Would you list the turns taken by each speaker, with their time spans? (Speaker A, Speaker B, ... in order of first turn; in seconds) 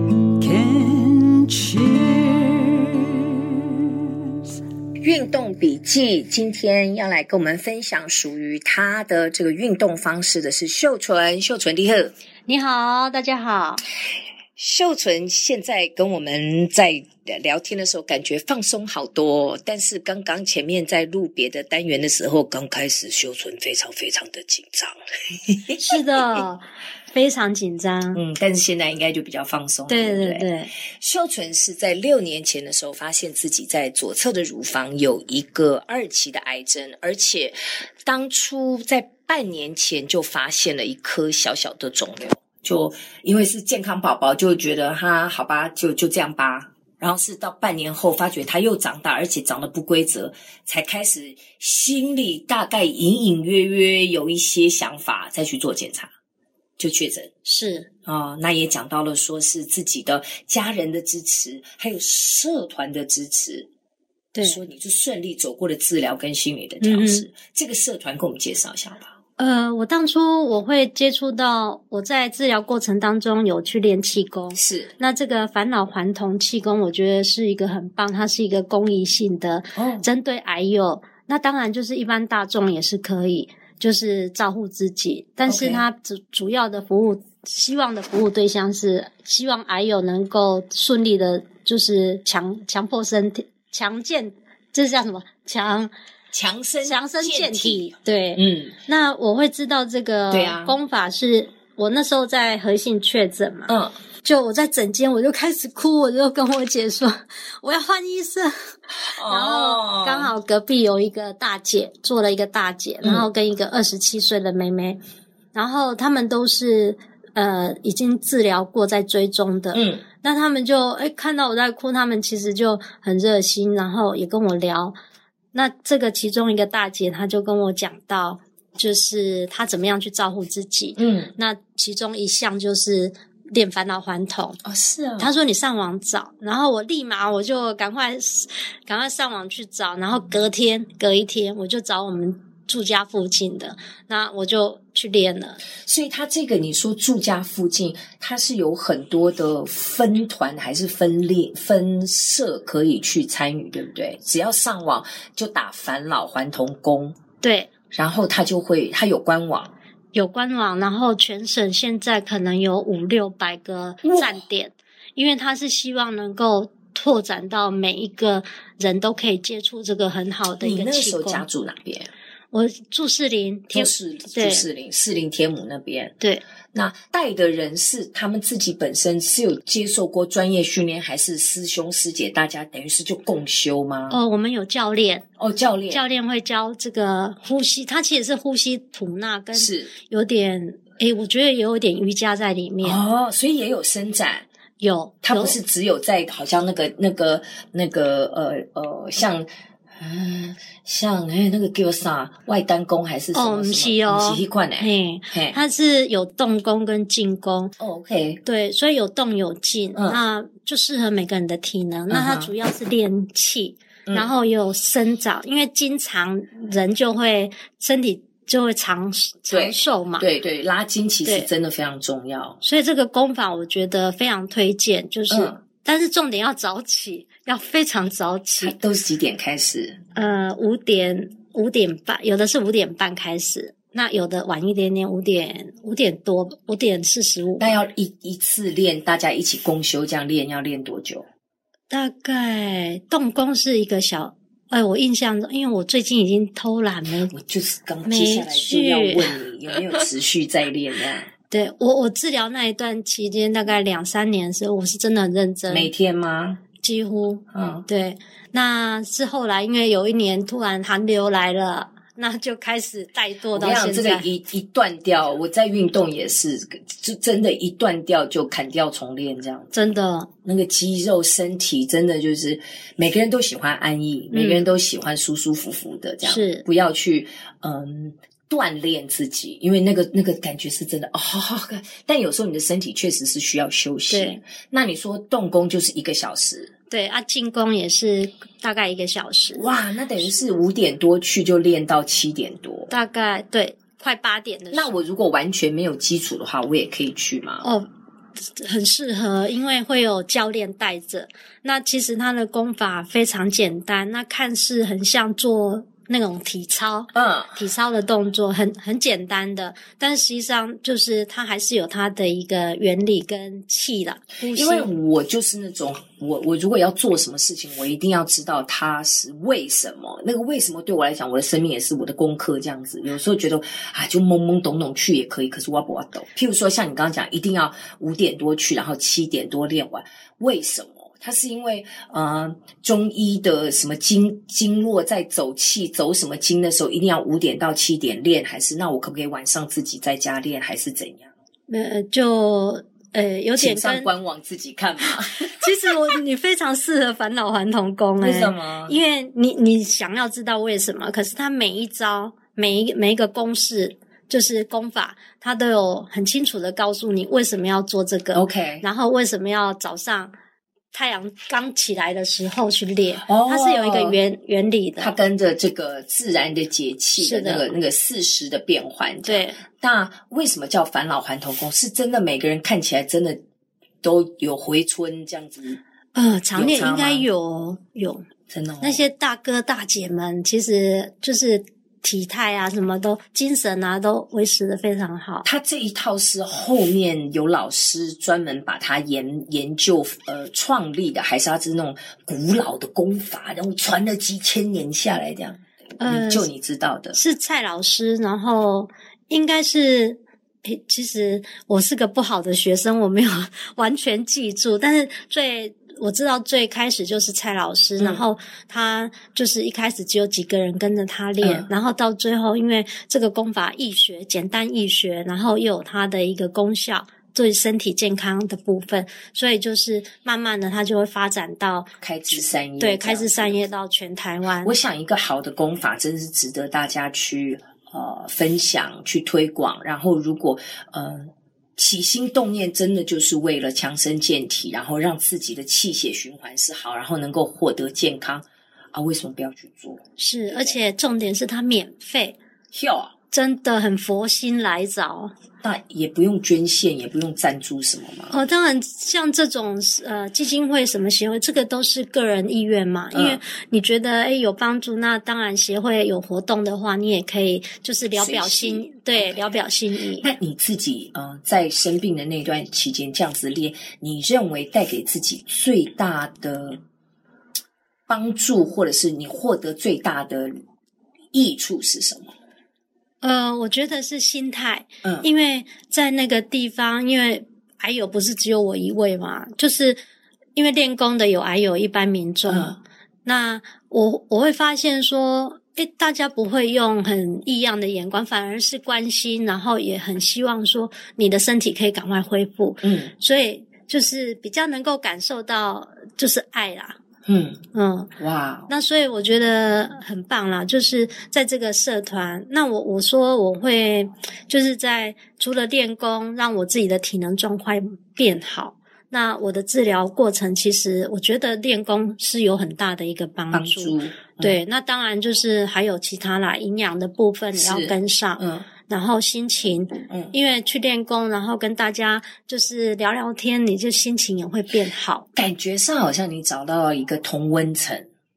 Speaker A: 0.4-2.7
Speaker B: 5.0-12.1, 14.6-24.9, 25.5-26.4, 28.1-56.1, 56.8-57.3, 58.0-63.7, 64.4-69.1, 74.5-74.9, 79.7-80.1, 85.5-85.8, 96.3-98.8, 100.3-100.8, 103.7-104.0, 108.9-110.3, 113.0-113.3, 119.7-120.0, 131.0-131.3, 134.6-135.3, 145.8-157.2, 157.9-159.7, 164.0-164.4, 170.6-172.1, 173.7-176.1, 176.7-184.2, 185.4-186.0, 189.5-189.9, 192.8-194.5, 195.2-205.6, 207.8-208.4, 209.9-210.2, 212.1-212.5, 214.1-214.3, 219.5-222.6, 225.3-225.6, 228.6-230.0, 237.6-241.2, 247.3-251.3, 255.7-256.6, 257.5-257.8, 263.5-269.7, 270.4-286.7, 289.5-292.9, 294.7-297.7, 307.1-307.6, 314.4-341.3, 343.6-345.7, 348.2-349.0, 358.3-358.9, 363.2-364.2, 365.0-373.4, 374.0-375.8, 376.5-377.3, 378.5-379.0, 385.4-397.2, 408.0-408.2, 411.4-411.7, 422.0-423.7, 424.6-440.8, 442.7-443.1, 445.6-448.4, 453.1-453.4, 458.1-459.6, 460.2-466.8, 468.1-470.6, 471.3-472.3, 482.5-482.8, 492.8-493.1, 497.2-497.6, 498.2-498.7, 513.5-514.6, 517.5-518.7, 520.1-520.3, 525.4-528.1
Speaker C: 12.5-13.8, 25.8-28.2, 29.9-30.7, 57.4-57.9, 64.3-64.6, 66.8-67.3, 69.4-95.9, 96.8-115.0, 115.5-124.9, 125.5-134.6, 135.2-145.6, 157.4-157.7, 160.1-171.4, 172.5-174.7, 184.1-185.2, 185.9-193.0, 194.8-195.6, 203.3-207.7, 208.4-220.3, 222.6-228.8, 230.1-237.8, 241.9-247.3, 248.0-249.3, 251.5-255.9, 256.8-264.3, 269.7-270.3, 274.3-274.6, 276.2-276.6, 284.1-284.4, 286.9-289.7, 292.9-294.9, 297.6-297.9, 298.5-314.9, 341.7-344.1, 345.3-360.3, 360.9-365.1, 367.1-367.7, 369.2-369.6, 376.1-378.2, 378.8-385.4, 396.0-396.5, 397.1-424.8, 440.2-442.4, 443.3-445.3, 448.3-460.3, 473.2-480.0, 480.5-497.0, 497.7-498.1, 498.7-525.3